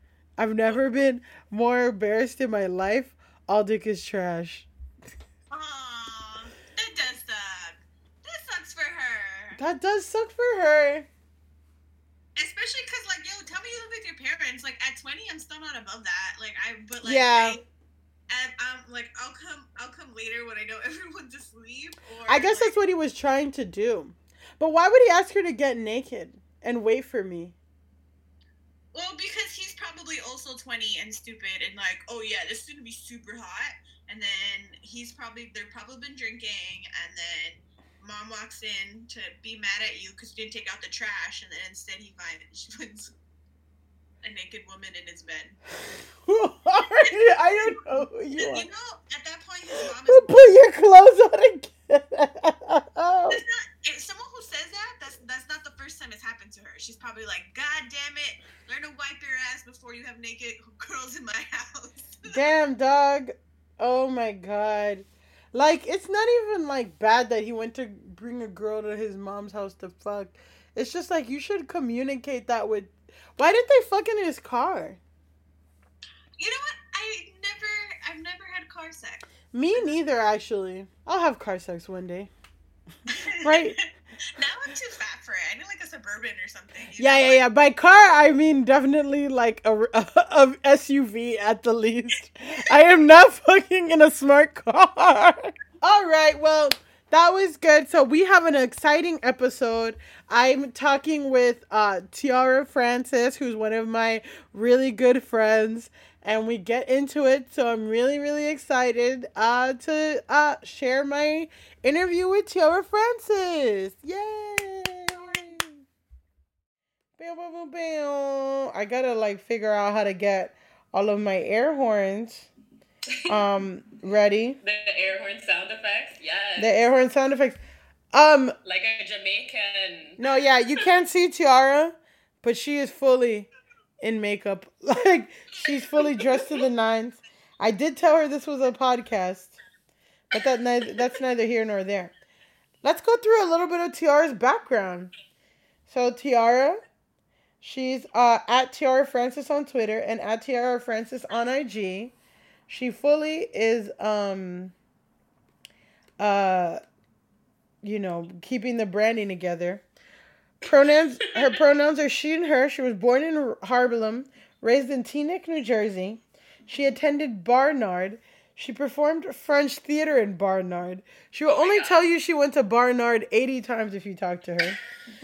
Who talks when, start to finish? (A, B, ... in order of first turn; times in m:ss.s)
0:00.4-0:04.7 A
0:05.5-0:09.6 B
0:09.6-0:11.1 A
0:12.4-0:17.6 B
0:17.0-0:17.6 A
0:18.3-0:22.8 B
0:22.3-0:27.6 A
0:28.9-0:43.1 B
0:44.2-0:45.6 B
0:46.2-0:48.7 A
0:48.4-0:50.4 B
0:49.7-0:53.4 A
0:53.3-1:02.4 B
1:02.2-1:15.0 A
1:16.4-1:19.3 B
1:19.5-1:22.3 A
1:23.1-1:23.8 B
1:23.4-1:23.8 A
1:24.4-1:27.4 B
1:27.0-1:55.8 A
1:57.2-2:02.5 A
2:03.1-2:03.4 C
2:03.3-2:04.6 A
2:04.6-2:06.8 C
2:06.6-2:07.6 A
2:08.1-2:08.6 A
2:08.6-2:10.2 C
2:10.2-2:13.5 A
2:14.0-2:19.6 A
2:16.2-2:16.6 C
2:20.3-2:22.1 A
2:22.8-2:25.1 A
2:25.9-2:26.8 A
2:27.6-2:32.1 A
2:32.7-2:34.7 A
2:36.2-2:36.8 A
2:37.8-2:39.8 A
2:40.6-2:54.8 A
2:51.5-2:52.0 C